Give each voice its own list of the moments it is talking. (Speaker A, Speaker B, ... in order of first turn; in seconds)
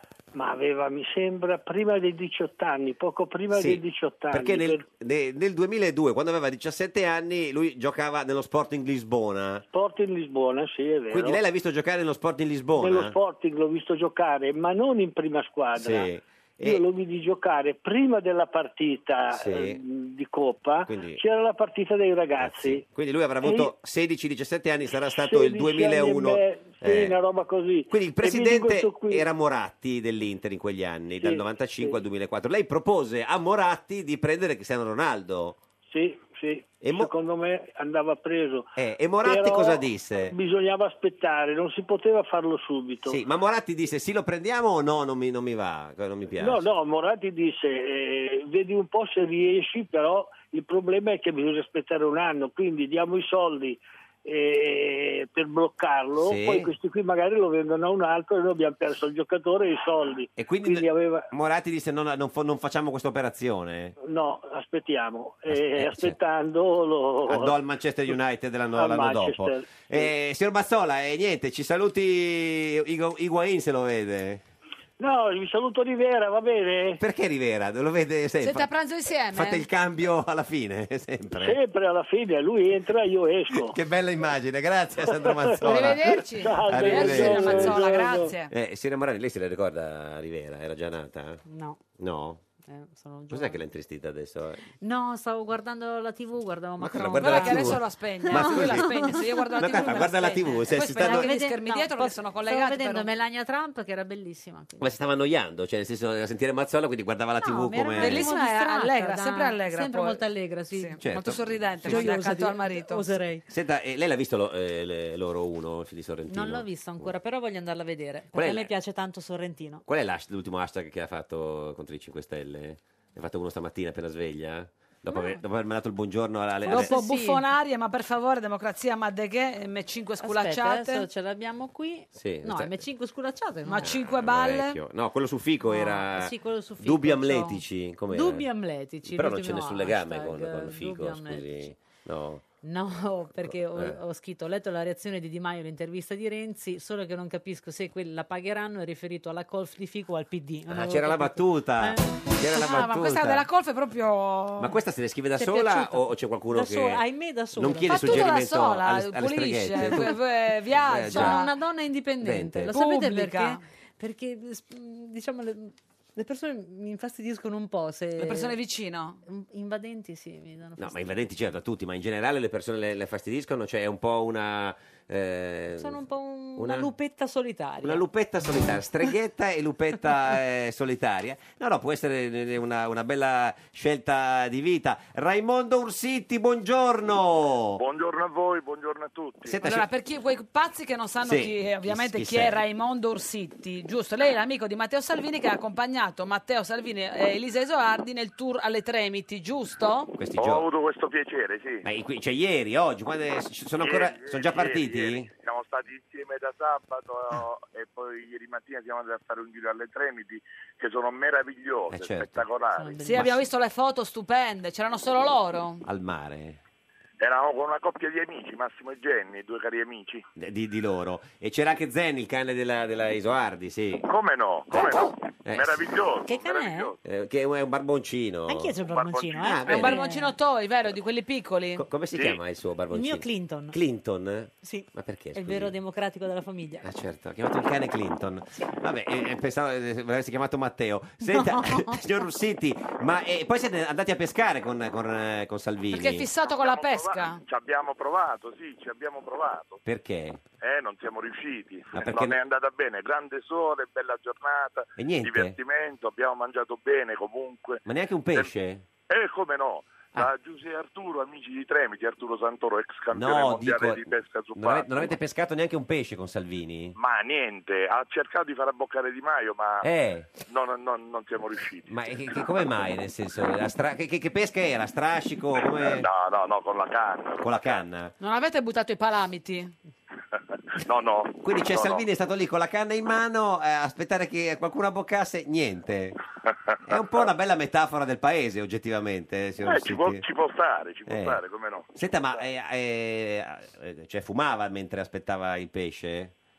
Speaker A: 0.3-4.9, 9.7-11.4, 12.8-16.1, 16.6-22.8, 23.4-23.7, 25.1-29.2, 31.2-32.0, 35.9-43.2, 46.4-61.3, 64.0-67.6, 68.7-70.1, 75.0-77.0, 81.3-83.8, 85.1-85.6, 86.3-88.3
Speaker B: 3.5-9.6, 11.1-13.2, 15.8-16.9, 19.3-19.8, 20.9-21.2, 22.4-27.2, 27.9-35.6, 36.8-37.1, 38.8-40.3, 43.1-46.7, 56.2-56.7, 60.4-63.9, 65.5-66.2, 67.3-74.4, 77.0-78.7, 79.3-81.6, 83.5-87.9, 88.5-92.4, 93.3-94.6, 96.8-101.3, 104.8-108.3, 111.0-112.1, 113.5-117.2, 118.3-118.8, 119.9-127.0, 132.1-132.9, 133.8-138.5, 139.0-142.5, 143.4-144.0, 150.7-153.4, 154.6-160.2, 160.8-161.5, 162.2-162.7, 170.8-176.0, 176.6-176.9, 177.8-187.8, 189.5-189.9, 191.2-192.6, 200.2-200.7, 201.8-205.3, 211.9-212.5, 215.8-216.6, 220.4-224.1, 224.7-225.9, 227.0-230.0, 231.8-235.8, 236.8-246.3, 249.8-250.4, 251.9-252.4, 255.0-255.6, 257.9-258.9, 263.1-267.0, 269.8-270.4, 271.9-276.1, 277.4-278.1, 281.4-286.2, 286.9-290.2, 291.1-291.4, 291.9-296.3
Speaker C: 78.4-79.7, 85.6-88.5, 97.2-103.1, 108.0-113.1, 126.7-131.1, 133.7-134.8, 152.5-154.8, 157.8-161.5, 162.7-163.6, 168.2-169.2, 189.6-200.1, 213.0-215.8, 229.6-231.8, 245.9-247.4, 278.2-279.8
Speaker D: 91.5-91.8, 92.7-93.6, 94.8-104.9, 107.4-111.1, 111.8-113.4, 116.3-119.8, 125.1-125.4, 126.6-127.5, 130.2-133.9, 135.6-142.0, 142.6-152.2, 155.4-158.3, 159.8-160.1, 161.1-168.6, 169.2-171.2, 175.8-178.1, 212.7-213.5, 226.2-226.9, 228.5-230.4, 232.9-233.8, 234.6-236.9, 241.3-242.0
Speaker E: 187.8-189.6, 200.4-201.9, 203.8-213.0, 217.2-220.3, 224.1-227.0, 228.8-229.6, 246.4-249.8, 250.6-258.5, 259.1-265.1, 267.0-269.9, 270.5-272.6, 275.6-277.8, 280.8-282.1, 286.9-287.2, 289.6-292.4